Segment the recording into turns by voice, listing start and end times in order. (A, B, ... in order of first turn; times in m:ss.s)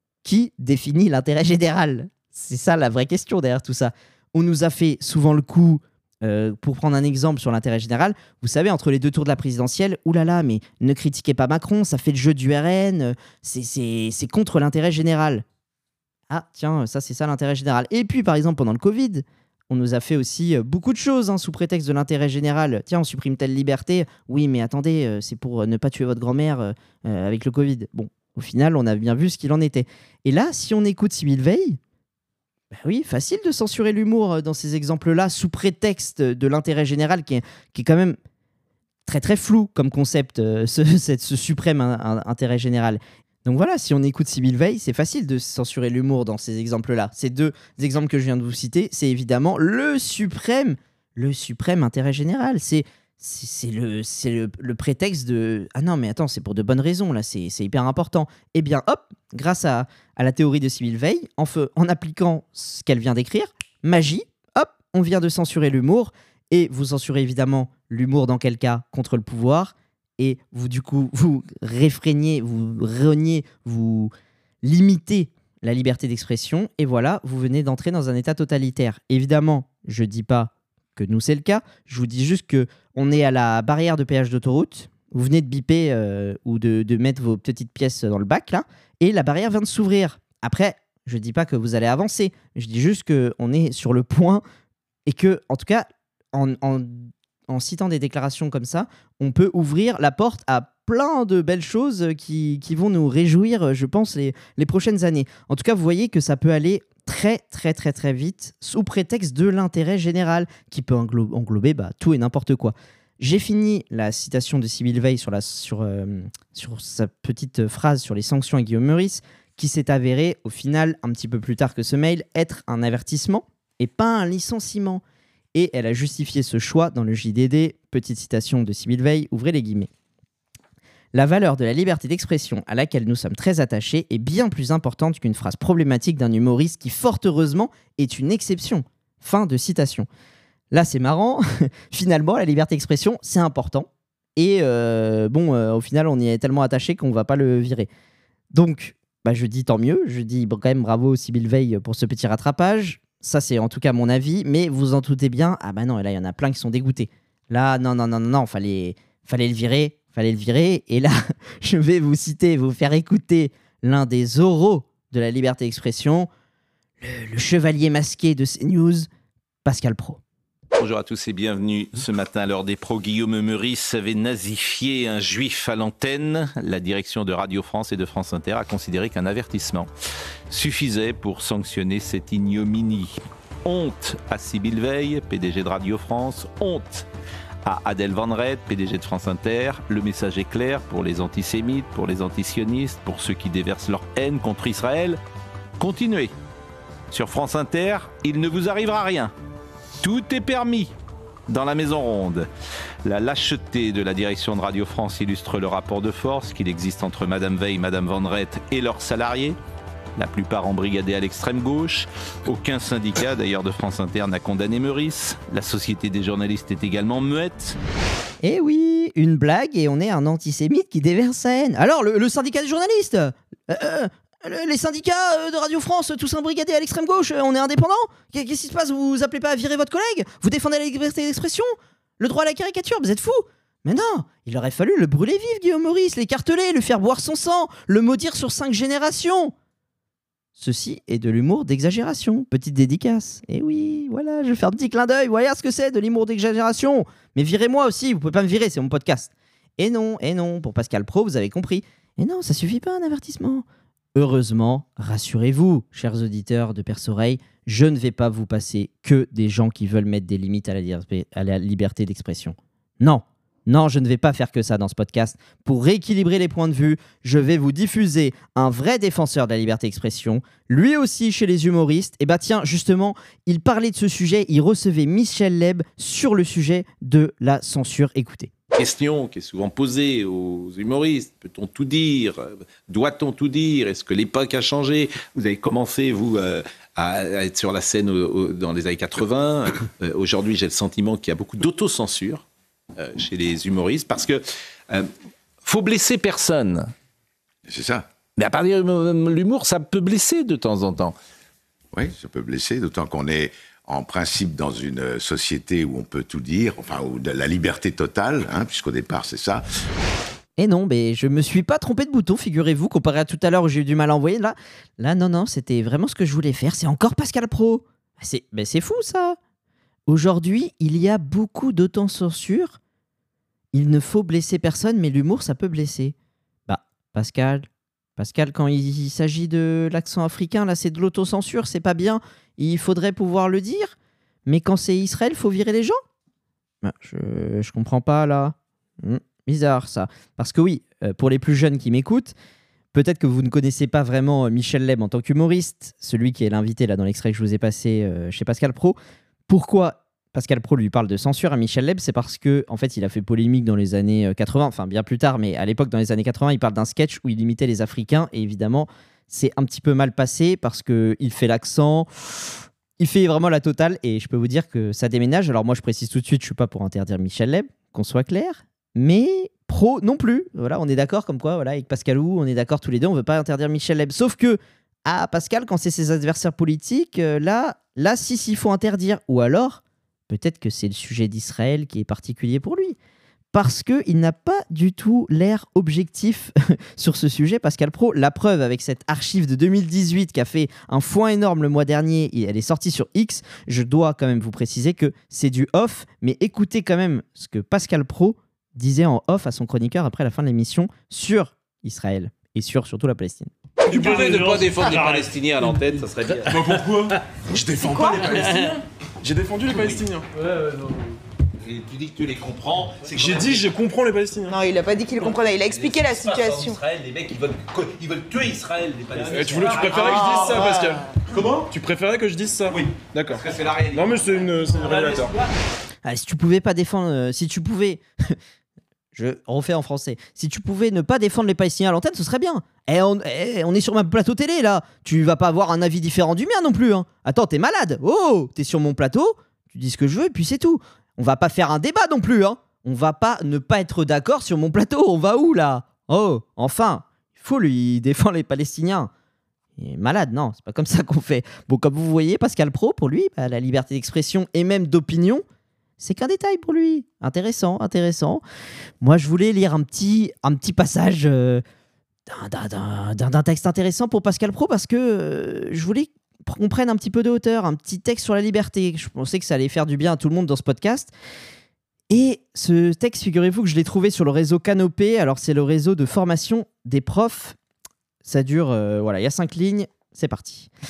0:00.2-0:15.4 A
0:16.3-0:31.8 A
0:32.7-0:38.2 A
0:39.0-1:14.1 A
1:14.6-1:34.4 A
1:35.1-2:05.0 A
2:05.5-2:09.9 A
2:11.1-2:20.1 A
2:20.7-2:27.9 A
2:28.5-2:46.3 A
2:47.0-2:49.1 A
2:49.6-2:50.2 A
2:50.8-2:59.9 B
3:00.5-3:07.1 B
3:07.6-3:15.2 B
3:15.8-3:16.3 B
3:17.1-3:19.3 B
3:20.0-3:20.9 B
3:21.5-3:22.5 B
3:23.0-3:29.6 B
3:30.2-3:37.8 B
3:38.4-3:59.5 A
4:00.6-4:38.5 A
4:38.8-4:52.4 B
4:53.0-4:55.1 B
4:55.6-4:56.9 B
4:57.7-4:58.1 C
4:58.4-5:01.2 B
5:01.9-5:09.6 C
5:10.6-5:19.4 A
5:20.1-5:22.8 A
5:23.7-5:26.1 A
5:26.7-5:33.9 A
5:34.5-5:36.0 A
5:36.8-5:42.3 A
5:42.9-5:49.0 A
5:49.5-6:23.0 A
6:23.5-6:43.5 A
6:43.8-6:45.4 D
6:43.9-6:47.0 B
6:46.4-6:50.3 D
6:47.8-6:48.2 E
6:47.9-6:48.8 B
6:49.8-6:50.9 B
6:51.6-6:53.6 B
6:53.1-6:54.6 D
6:54.5-6:56.8 E
6:55.7-7:00.8 B
6:59.2-7:01.1 D
7:00.0-7:00.5 E
7:01.3-7:01.6 B
7:01.6-7:05.4 D
7:03.3-7:04.2 B
7:04.7-7:05.4 B
7:06.0-7:08.3 A
7:09.1-7:29.1 A
7:29.8-7:35.4 A
7:36.0-7:38.4 A
7:39.0-7:41.6 A
7:42.3-7:51.1 A
7:52.1-7:57.6 A
7:58.2-8:00.7 A